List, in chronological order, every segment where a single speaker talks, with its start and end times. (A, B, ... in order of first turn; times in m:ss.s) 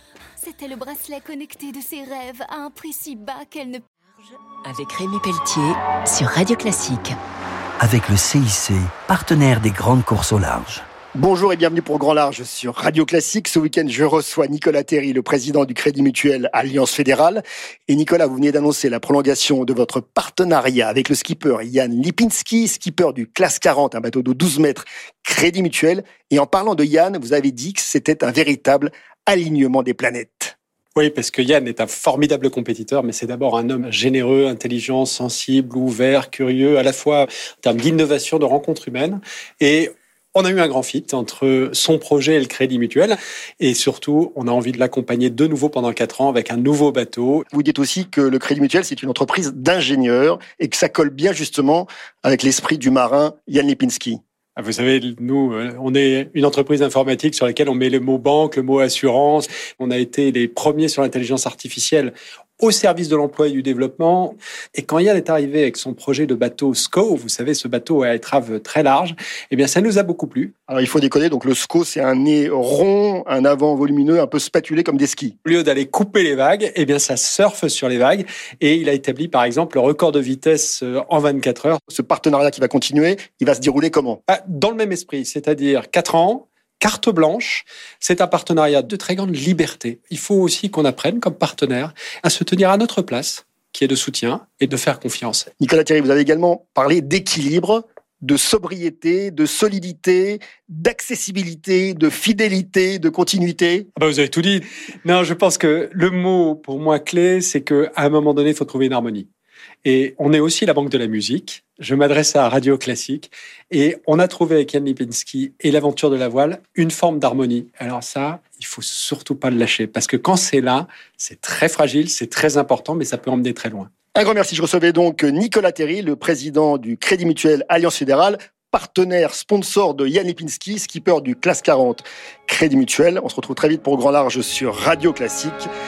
0:00.4-0:04.4 A
0:04.6-0:07.2 B
0:07.8-0:10.8 C
0:11.2-0:30.6 D
0:31.0-0:47.4 E
0:47.5-0:54.2 D
0:54.6-1:10.5 E
1:10.7-1:15.4 D
1:15.4-1:21.8 E
1:21.9-1:24.2 D
1:24.3-1:35.5 E
1:35.6-1:43.9 D
1:44.0-1:49.3 E
1:49.8-2:03.9 E
2:04.2-2:15.7 D